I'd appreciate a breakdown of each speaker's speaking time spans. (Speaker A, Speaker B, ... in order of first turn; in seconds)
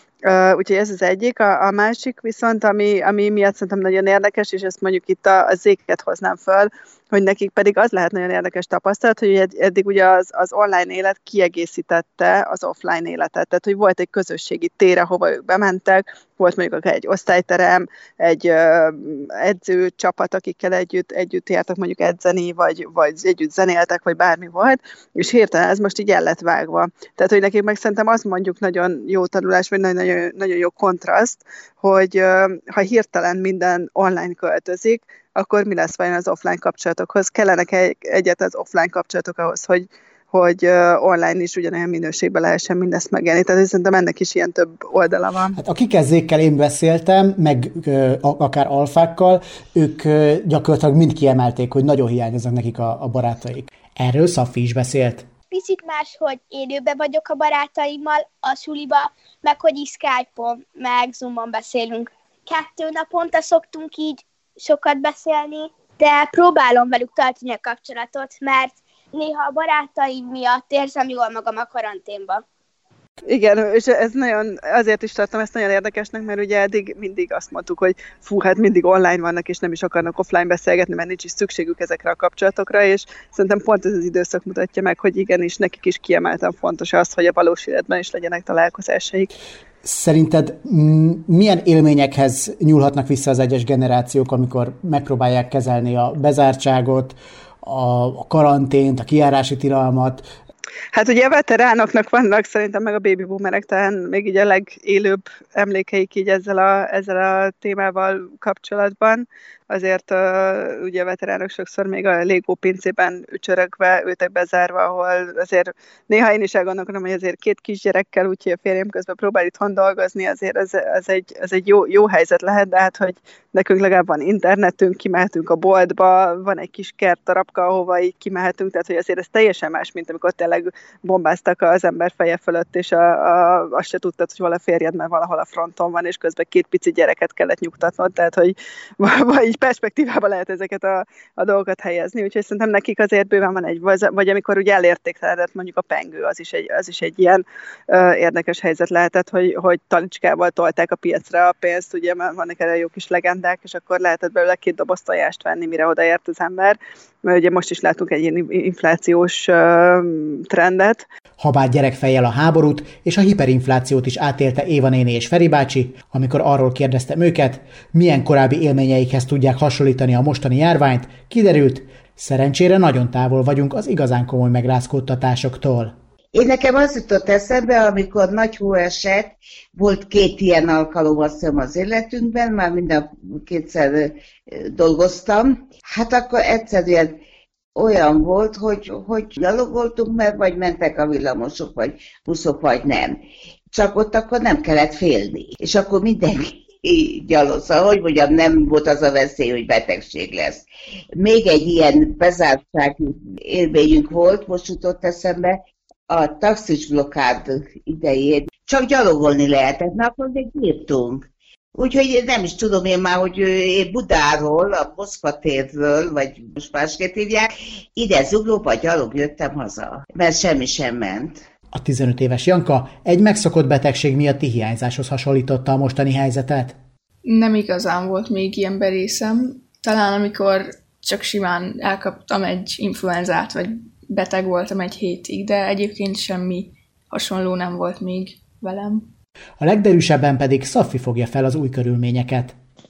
Speaker A: 0.2-45.6, 73.2-89.3, 100.9-161.0
Speaker B: 45.5-55.3, 89.8-100.3, 161.4-175.9, 221.7-226.8, 239.6-242.6
Speaker C: 55.5-72.4
Speaker D: 176.3-187.2, 187.8-200.7, 201.2-221.4
Speaker E: 227.2-239.1